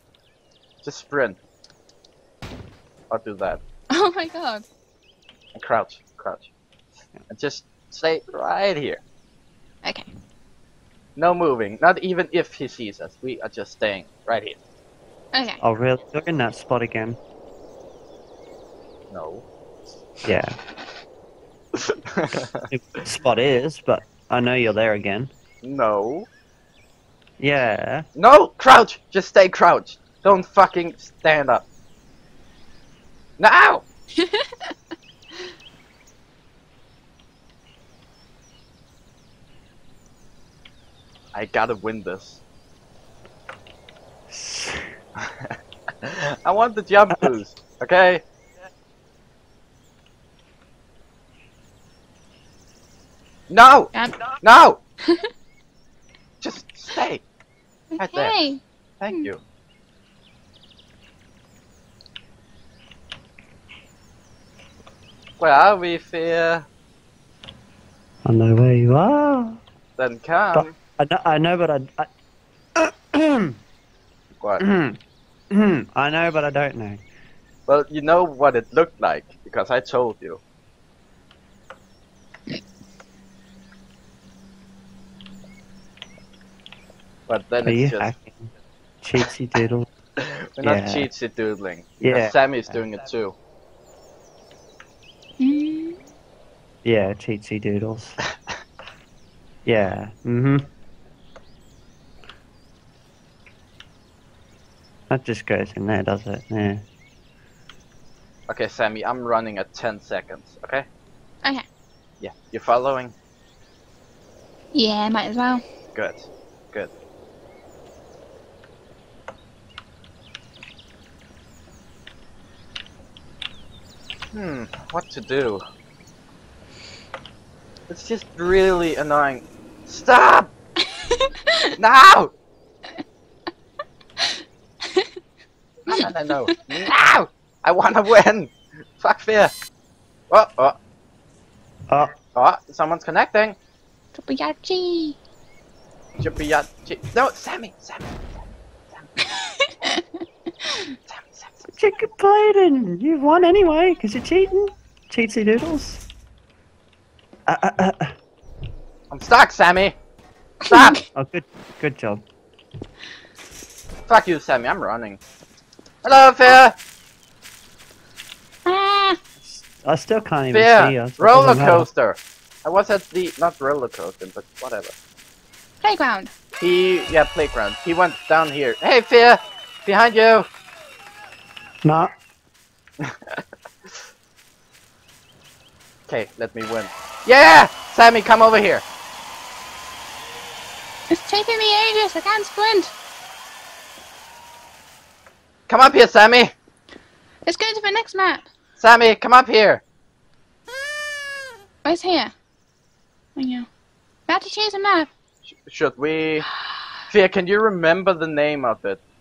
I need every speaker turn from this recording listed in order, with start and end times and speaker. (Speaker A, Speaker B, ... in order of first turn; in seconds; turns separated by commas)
Speaker A: 0.8-1.4, Speaker A: 3.1-3.6, Speaker B: 3.9-4.6, Speaker A: 5.5-6.5, Speaker A: 7.3-9.0, Speaker A: 11.2-14.6, Speaker B: 15.3-15.6, Speaker C: 15.6-17.2, Speaker A: 19.1-19.4, Speaker C: 20.2-20.5, Speaker A: 22.1-22.6, Speaker C: 22.6-25.3, Speaker A: 25.6-26.3, Speaker C: 27.4-28.1, Speaker A: 28.1-31.6, Speaker A: 33.4-33.8, Speaker B: 34.2-34.7, Speaker A: 41.3-42.4, Speaker C: 44.3-44.8, Speaker A: 46.0-48.2, Speaker A: 53.5-54.8, Speaker B: 53.9-54.4, Speaker A: 56.4-57.2, Speaker B: 57.9-59.3, Speaker A: 58.0-58.4, Speaker A: 59.0-59.4, Speaker A: 65.4-66.7, Speaker C: 68.2-69.6, Speaker A: 70.0-70.7, Speaker C: 70.5-72.1, Speaker C: 72.8-73.6, Speaker C: 74.6-75.0, Speaker C: 75.5-77.0, Speaker A: 77.7-80.4, Speaker A: 87.3-88.1, Speaker C: 87.6-89.9, Speaker A: 90.6-93.3, Speaker C: 90.6-91.1, Speaker C: 92.0-92.3, Speaker B: 95.4-96.0, Speaker C: 96.8-98.2, Speaker C: 99.6-100.7, Speaker C: 105.1-106.8, Speaker A: 108.5-110.9, Speaker A: 112.2-113.1, Speaker B: 114.7-115.6, Speaker A: 115.9-116.9, Speaker A: 124.3-125.6, Speaker A: 127.9-130.5, Speaker B: 131.1-131.7, Speaker A: 131.8-132.3, Speaker A: 135.8-139.5, Speaker A: 140.3-140.7, Speaker A: 142.3-143.6, Speaker B: 144.1-145.2, Speaker A: 146.2-149.1, Speaker B: 149.4-150.9, Speaker A: 151.1-151.6, Speaker C: 151.7-156.0, Speaker C: 157.5-158.1, Speaker A: 159.1-159.9, Speaker B: 160.6-161.0, Speaker A: 160.7-161.0, Speaker C: 161.1-162.2, Speaker A: 164.1-165.2, Speaker A: 166.0-166.7, Speaker B: 168.7-169.2, Speaker C: 169.4-171.9, Speaker A: 170.5-174.9, Speaker B: 175.8-176.3, Speaker A: 176.6-180.5, Speaker C: 181.8-182.1, Speaker A: 186.1-188.8, Speaker B: 191.1-192.9, Speaker A: 195.7-196.5, Speaker B: 197.4-198.5, Speaker A: 198.8-199.8, Speaker B: 201.8-202.3, Speaker B: 203.3-203.7, Speaker B: 204.3-205.1, Speaker A: 205.4-206.5, Speaker A: 207.1-209.0